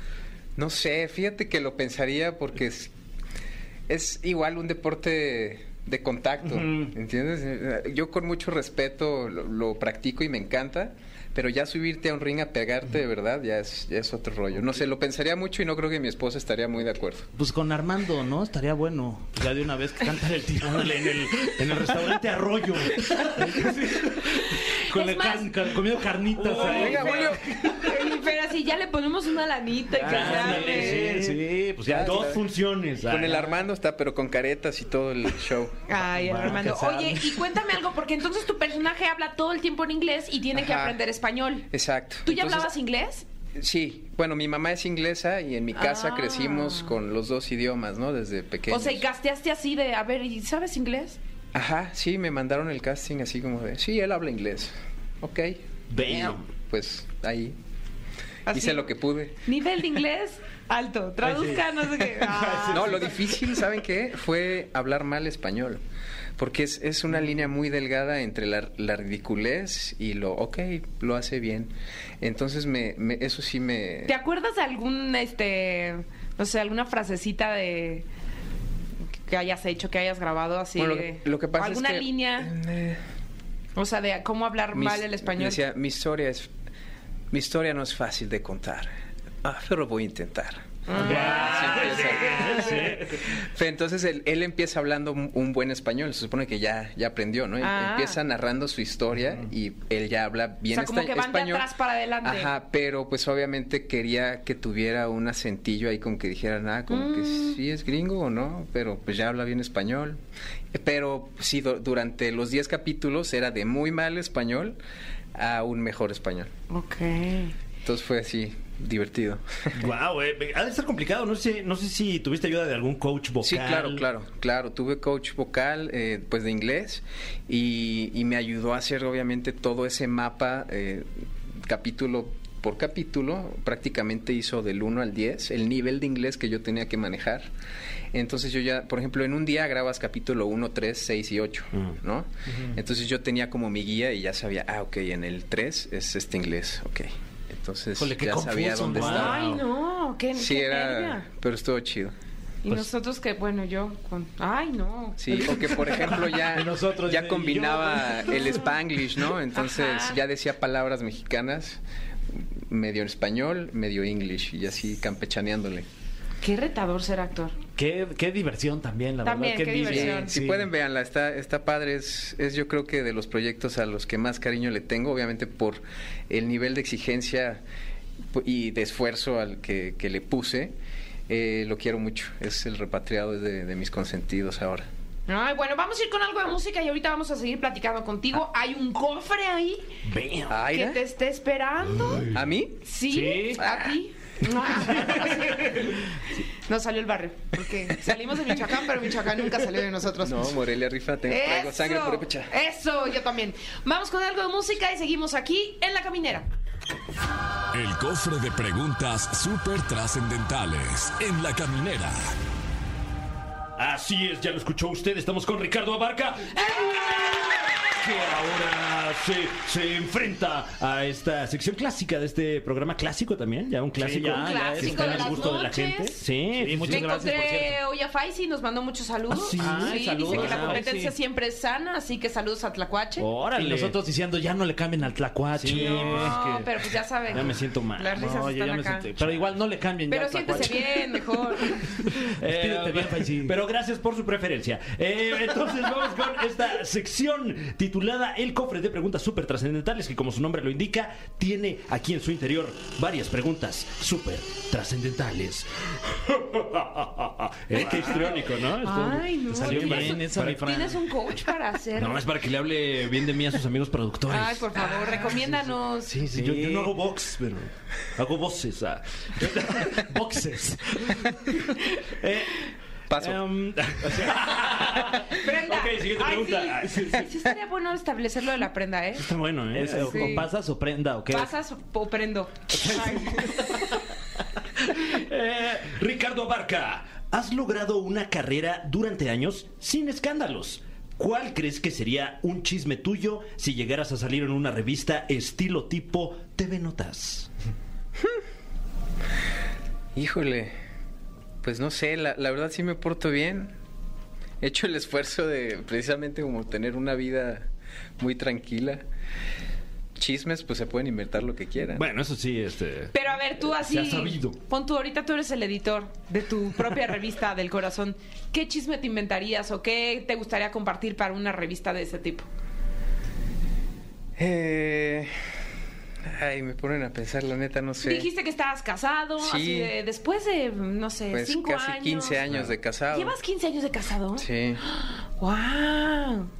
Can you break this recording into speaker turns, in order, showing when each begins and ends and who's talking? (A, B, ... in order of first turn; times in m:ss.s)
0:00.6-0:02.9 A
0:03.9-0:17.3 A
0:17.3-0:22.1 B
0:20.6-0:24.2 C
0:22.9-0:27.3 B
0:24.8-0:25.8 D
0:26.4-0:27.4 C
0:26.5-0:31.2 D
0:26.6-0:27.4 A
0:29.9-0:33.5 C
0:30.0-0:32.2 B
0:31.8-0:32.4 A
0:33.0-0:35.8 A
0:35.9-0:41.7 D
0:36.0-0:37.6 B
0:40.5-0:41.0 A
0:41.7-0:42.7 A
0:42.2-0:43.2 D
0:43.5-0:49.0 A
0:45.7-0:47.0 D
0:48.7-0:51.2 D
0:51.5-0:57.6 A
0:55.9-0:56.4 C
0:58.5-0:58.8 D
0:58.5-0:59.4 A
0:59.4-1:03.0 D
1:01.2-1:01.6 C
1:02.1-1:03.0 C
1:02.7-1:05.8 A
1:06.4-1:14.2 A
1:14.1-1:18.0 D
1:19.3-1:22.5 D
1:20.8-1:23.0 A
1:23.8-1:25.6 D
1:24.7-1:26.5 A
1:27.3-1:41.7 A
1:30.9-1:32.9 D
1:31.0-1:33.2 C
1:31.1-1:31.8 B
1:37.6-1:38.2 D
1:40.7-1:42.5 D
1:42.2-1:50.2 A
1:46.9-1:47.6 D
1:50.7-1:54.8 A
1:55.3-1:56.5 A
1:56.7-1:57.5 D
1:57.8-1:59.8 A
1:59.7-2:04.0 C
2:03.4-2:17.5 A
2:18.1-2:29.4 A
2:28.0-2:29.6 B
2:28.9-2:29.4 C
2:29.0-2:31.2 D
2:30.3-2:32.1 A
2:32.6-2:36.2 D
2:35.2-2:41.8 A
2:36.4-2:38.4 B
2:39.5-2:40.2 D
2:42.3-2:45.8 A
2:46.4-2:47.5 D
2:47.8-2:50.7 B
2:49.2-2:50.3 D
2:49.8-2:57.6 A
2:58.3-3:00.7 A
3:01.3-3:04.8 A
3:05.3-3:09.9 D
3:10.0-3:10.5 C
3:10.5-3:11.0 A
3:10.7-3:12.3 D
3:12.3-3:12.8 A
3:12.8-3:16.1 D
3:13.1-3:13.6 B
3:13.6-3:13.9 A
3:16.6-3:20.6 D
3:20.2-3:22.5 A
3:21.3-3:26.5 D
3:27.7-3:32.3 E
3:33.8-3:47.0 C
3:36.6-3:37.6 D
3:44.0-3:45.6 B
3:44.2-3:46.2 D
3:46.6-3:47.8 B
3:46.9-3:53.3 D
3:49.3-3:50.8 C
3:49.6-3:51.1 B
3:53.2-3:53.9 C
3:53.5-3:56.4 B
3:55.6-3:58.3 C
3:55.7-3:59.1 D
3:58.1-4:00.9 B
4:00.1-4:01.8 D
4:01.8-4:20.9 C
4:02.0-4:03.5 B
4:17.8-4:18.3 B
4:17.8-4:22.2 D
4:19.5-4:21.0 B
4:21.9-4:30.1 C
4:24.3-4:26.1 D
4:26.2-4:26.9 B
4:30.0-4:31.2 B
4:31.0-4:32.6 C
4:33.1-4:33.4 A
4:33.2-4:37.3 C
4:35.3-4:39.3 D
4:39.2-4:40.4 C
4:39.7-4:41.5 B
4:40.0-4:40.5 D
4:41.3-4:43.7 D
4:42.8-4:44.0 C
4:44.8-4:57.5 C
5:00.1-5:00.7 A
5:01.6-5:03.7 A
5:04.6-5:07.7 A
5:08.2-5:09.0 A
5:10.2-5:12.0 A
5:11.9-5:14.6 C
5:13.1-5:22.5 D
5:24.4-5:25.3 A
5:26.2-5:28.3 A
5:28.0-5:32.4 D
5:29.4-5:29.9 A
5:31.3-5:33.4 A
5:33.1-5:36.5 D
5:34.4-5:34.8 A